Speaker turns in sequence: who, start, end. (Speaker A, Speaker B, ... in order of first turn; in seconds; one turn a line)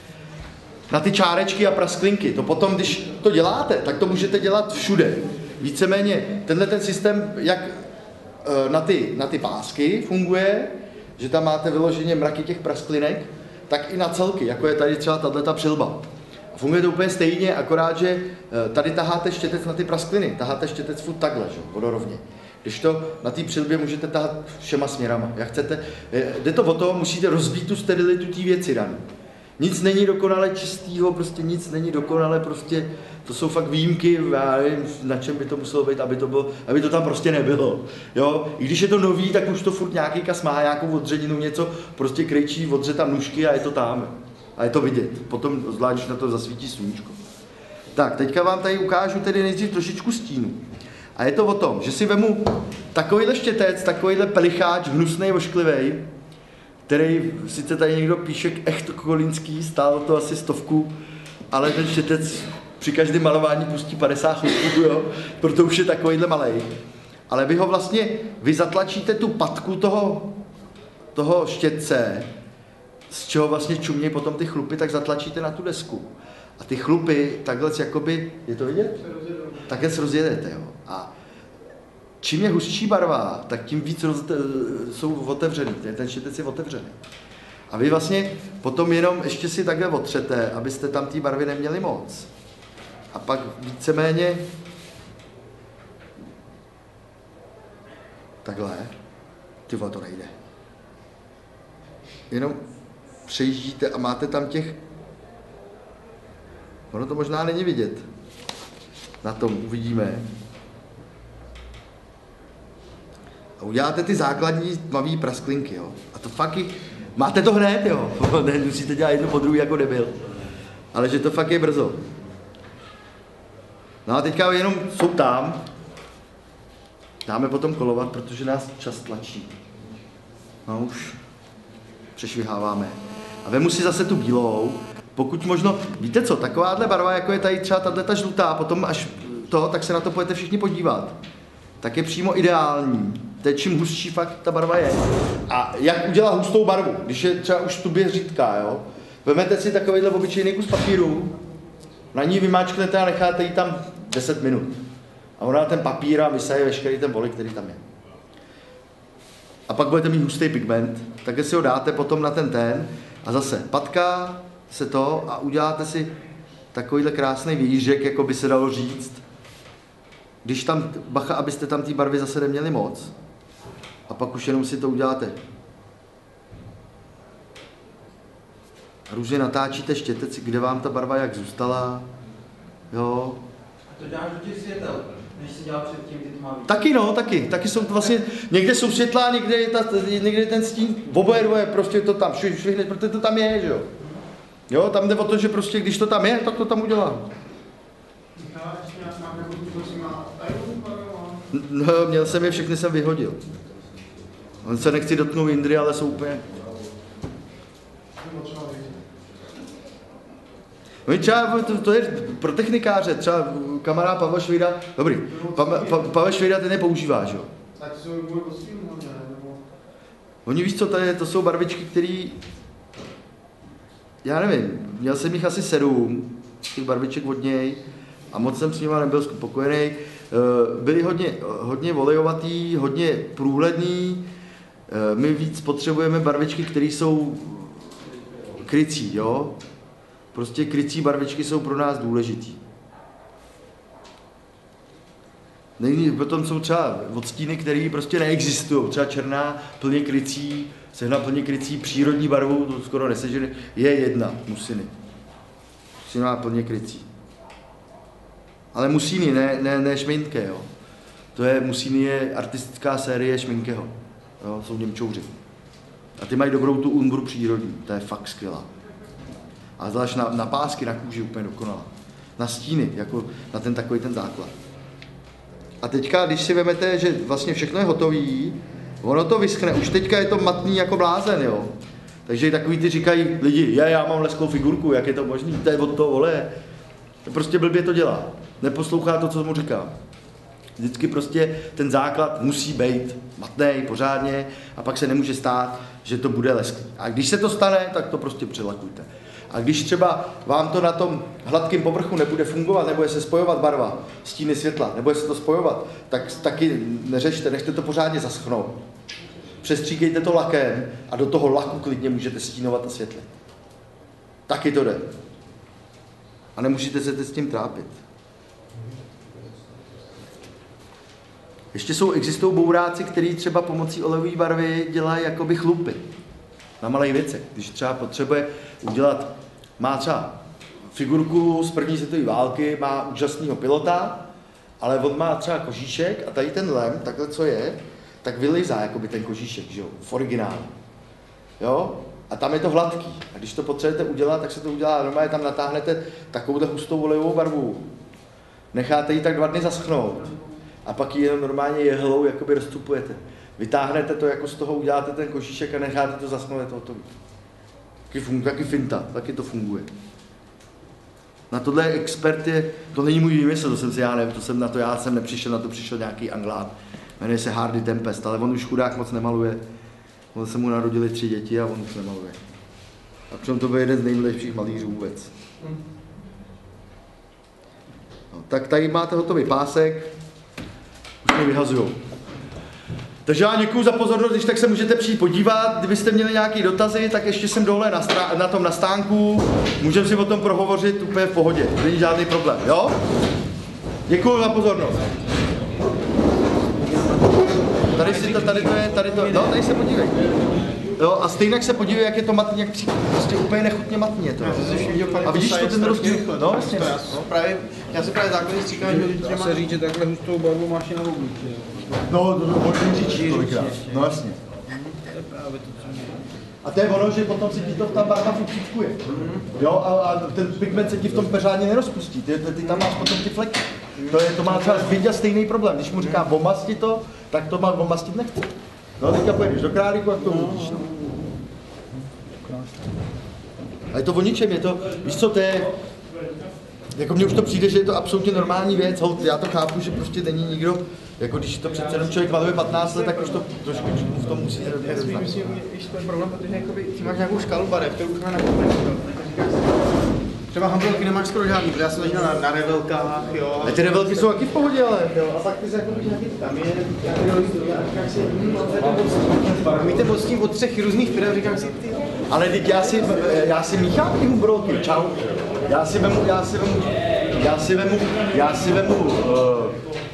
Speaker A: 0.9-7.8
Speaker A: 8.4-29.0
Speaker A: 29.6-47.2
Speaker A: 48.0-50.6
Speaker A: 51.2-56.1
Speaker A: 56.9-60.9
Speaker A: 61.5-66.7
Speaker A: 67.3-70.4
Speaker A: 71.2-72.3
Speaker A: 73.1-79.0
Speaker B: 79.0-79.9
Speaker A: 79.7-81.1
Speaker A: 82.2-87.0
Speaker A: 87.7-92.3
Speaker A: 93.1-94.5
Speaker A: 98.5-98.9
Speaker A: 99.7-100.3
Speaker A: 102.3-102.6
Speaker A: 103.3-104.8
Speaker A: 106.9-108.0
Speaker A: 109.2-110.3
Speaker A: 113.6-120.2
Speaker A: 120.9-122.0
Speaker A: 124.1-125.7
Speaker A: 127.3-129.6
Speaker A: 130.7-131.2
Speaker A: 132.2-141.2
Speaker A: 141.8-151.4
Speaker A: 152.1-154.8
Speaker A: 155.4-157.8
Speaker A: 159.7-166.1
Speaker A: 166.7-169.2
Speaker A: 170.4-173.1
Speaker A: 174.1-175.4
Speaker A: 179.1-182.1
Speaker A: 182.9-183.4
Speaker C: 183.9-186.8
Speaker A: 186.7-193.9
Speaker A: 194.7-197.3
Speaker B: 198.4-201.4
Speaker A: 201.5-203.4
Speaker A: 204.6-206.4
Speaker B: 208.2-209.0
Speaker A: 211.1-217.5
Speaker B: 215.3-216.1
Speaker B: 217.8-219.6
Speaker A: 220.5-222.4
Speaker A: 224.2-234.3
Speaker A: 234.9-237.9
Speaker A: 238.6-239.6
Speaker A: 240.3-242.6
Speaker A: 245.8-254.9
Speaker A: 256.1-257.1
Speaker A: 258.7-260.7
Speaker A: 261.4-265.3
Speaker A: 266.2-268.7
Speaker A: 269.8-274.5
Speaker A: 275.8-281.7
Speaker A: 282.3-286.5
Speaker A: 287.3-289.9
Speaker A: 290.8-308.8
Speaker A: 309.6-313.3
Speaker A: 314.5-315.1
Speaker A: 316.6-317.9
Speaker A: 321.7-326.0
Speaker A: 326.8-330.4
Speaker A: 330.9-334.3
Speaker A: 334.8-340.7
Speaker A: 341.6-347.9
Speaker A: 348.7-350.4
Speaker A: 350.9-357.1
Speaker A: 358.1-359.9
Speaker A: 361.5-369.6
Speaker A: 370.3-372.4
Speaker A: 373.3-375.3
Speaker A: 378.3-380.1
Speaker A: 381.2-382.0
Speaker A: 383.3-393.0
Speaker A: 394.1-395.0
Speaker C: 397.8-399.6
Speaker A: 397.9-400.3
Speaker A: 401.0-407.2
Speaker B: 404.4-409.8
Speaker C: 409.0-411.9
Speaker A: 412.1-414.4
Speaker C: 413.0-414.1
Speaker C: 414.7-416.2
Speaker A: 416.6-419.0
Speaker A: 419.5-430.9
Speaker B: 424.1-424.9
Speaker A: 433.9-435.7
Speaker A: 437.0-445.3
Speaker B: 444.7-462.1
Speaker A: 453.6-454.9
Speaker A: 462.3-469.8